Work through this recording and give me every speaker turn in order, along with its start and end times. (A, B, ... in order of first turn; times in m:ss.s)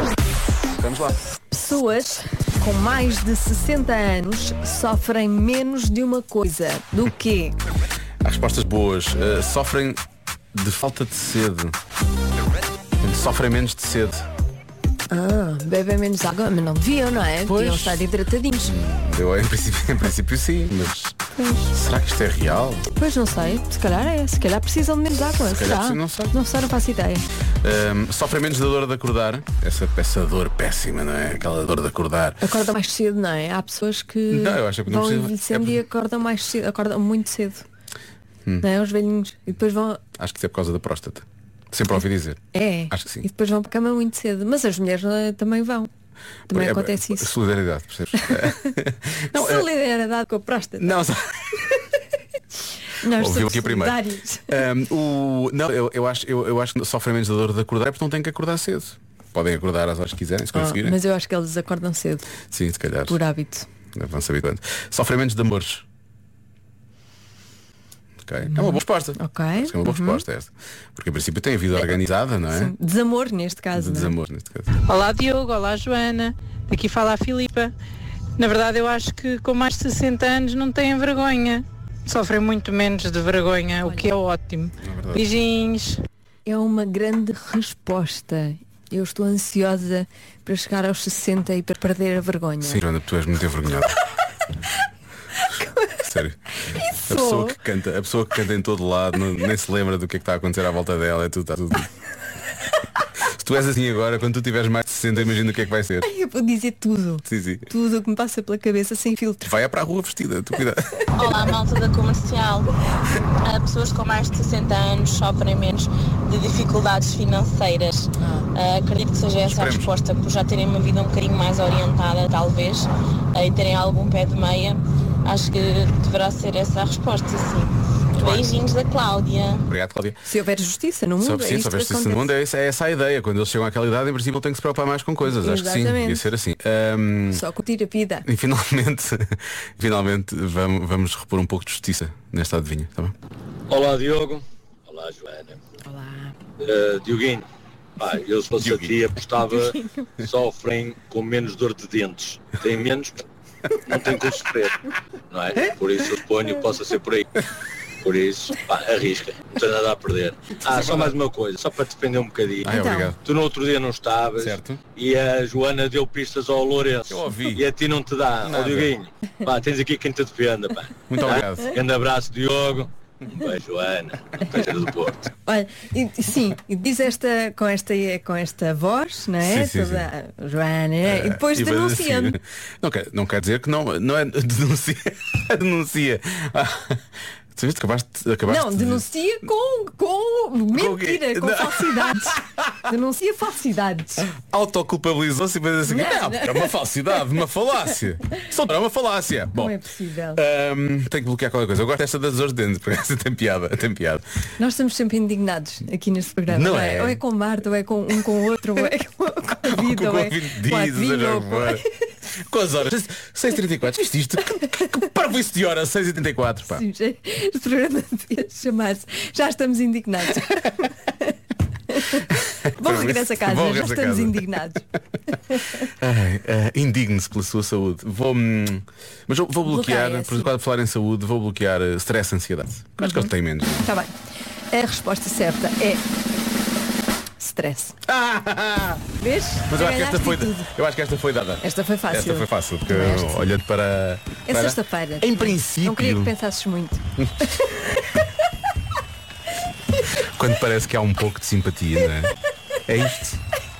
0:00.7-0:01.2 A
0:01.5-0:07.6 B
0:08.2-0:10.0 A
0:10.5-0:11.8 A
0:13.0-0:14.2 A
0:15.1-0:18.8 B
0:17.4-0:18.0 A
0:18.6-0:22.9 A
0:21.4-0:21.7 B
0:22.8-0:27.2 B
0:25.4-0:26.3 A
0:27.6-0:32.4 A
0:32.4-0:37.6 B
0:34.3-0:35.8 A
0:38.6-0:40.0 B
0:40.2-0:43.2 A
0:42.5-0:45.9 B
0:46.5-0:47.4 B
0:46.5-0:49.7 A
0:48.2-0:48.7 B
0:49.3-0:51.0 B
0:50.8-0:51.5 A
0:52.9-0:54.6 B
0:53.0-1:01.0 A
1:00.5-1:02.3 B
1:02.5-1:03.2 A
1:03.1-1:03.7 B
1:03.9-1:05.8 A
1:08.2-1:12.7 A
1:08.5-1:10.2 B
1:12.5-1:14.2 B
1:13.7-1:14.7 A
1:14.8-1:17.7 C
1:18.4-1:26.0 C
1:23.8-1:24.1 B
1:24.8-1:25.2 A
1:26.4-1:32.8 B
1:32.6-1:34.0 A
1:35.4-1:36.0 B
1:36.0-1:36.4 A
1:36.6-1:37.6 B
1:37.0-1:41.9 A
1:43.2-1:46.1 A
1:46.0-1:49.5 B
1:47.2-1:47.7 A
1:49.4-1:51.1 A
1:51.2-1:52.7 D
1:53.4-2:09.6 D
1:58.2-1:58.5 B
1:59.4-1:59.9 A
2:09.7-2:10.2 A
2:10.2-2:12.3 B
2:11.2-2:17.4 A
2:15.2-2:16.3 B
2:17.3-2:18.2 B
2:18.2-2:23.1 A
2:23.7-2:25.6 E
2:25.8-2:26.3 B
2:26.6-2:27.4 E
2:28.0-2:33.2 E
2:28.6-2:29.0 A
2:33.8-2:37.4 E
2:38.0-2:55.3 E
2:40.7-2:41.2 A
2:42.6-2:43.2 A
2:42.6-2:43.1 B
2:44.3-2:44.8 A
2:47.0-2:47.7 A
2:48.4-2:48.9 A
2:51.1-2:51.8 A
2:55.4-3:02.4 B
2:59.4-3:00.1 A
3:01.0-3:07.0 A
3:07.5-3:09.0 A
3:08.4-3:14.3 B
3:10.7-3:12.9 A
3:14.3-3:19.8 A
3:15.8-3:16.7 B
3:19.5-3:20.4 B
3:20.3-3:24.2 A
3:24.6-3:31.9 B
3:26.5-3:27.2 A
3:29.6-3:31.8 A
3:32.4-3:36.8 A
3:36.7-3:41.3 B
3:41.9-3:45.9 B
3:42.2-3:44.5 A
3:45.8-3:53.9 A
3:49.6-3:50.5 B
3:53.0-3:53.3 B
3:53.8-3:54.1 B
3:54.7-3:56.1 B
3:57.4-3:58.0 B
3:58.0-3:59.0 A
3:59.2-4:00.7 B
3:59.7-4:06.3 A
4:01.6-4:03.5 B
4:04.5-4:07.0 B
4:07.6-4:08.2 B
4:10.1-4:12.3 A
4:12.8-4:13.4 A